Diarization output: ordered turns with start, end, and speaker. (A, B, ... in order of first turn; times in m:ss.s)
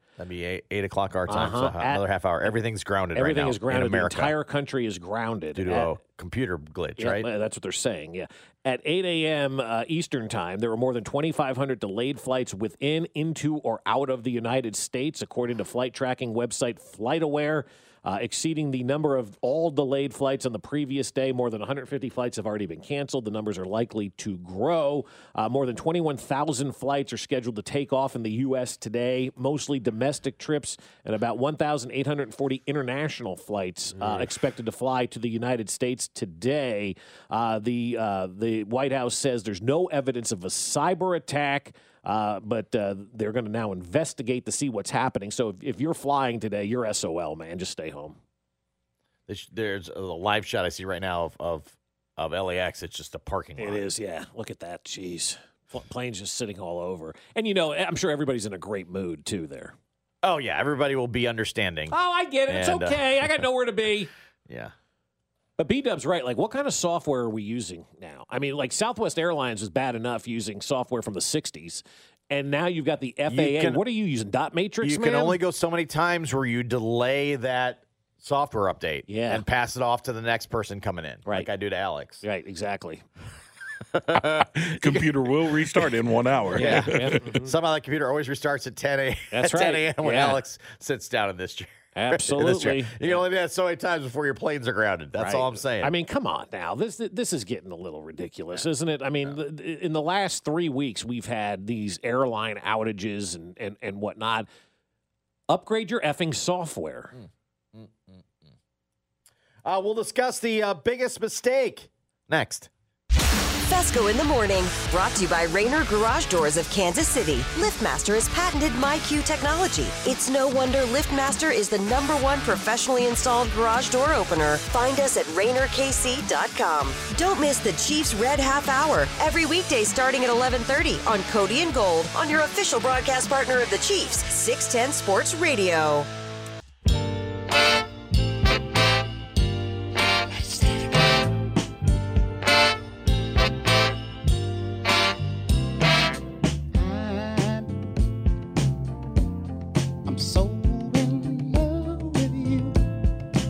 0:00.2-0:04.4 A
0:01.3-0:02.0 B
0:03.2-0:05.9 B
0:05.6-0:07.3 A
0:07.0-0:48.2 B
0:49.3-0:53.9 A
0:53.6-0:59.8 B
1:00.2-1:02.0 A
1:01.9-1:04.1 B
1:02.5-1:03.4 A
1:04.5-1:04.7 A
1:05.6-1:15.4 B
1:13.3-1:13.8 A
1:14.8-1:22.2 A
1:19.1-1:19.4 B
1:22.2-1:23.0 B
1:23.9-1:25.1 A
1:24.6-1:27.3 C
1:26.5-1:35.9 A
1:26.5-1:27.5 B
1:29.3-1:30.4 B
1:32.0-1:33.2 B
1:35.2-1:44.5 B
1:45.5-1:47.2 B
1:47.8-1:48.3 A
1:49.6-1:52.7 A
1:53.6-2:16.1 D
2:20.5-2:20.8 E
2:26.7-2:27.8 E
2:30.0-2:32.8 E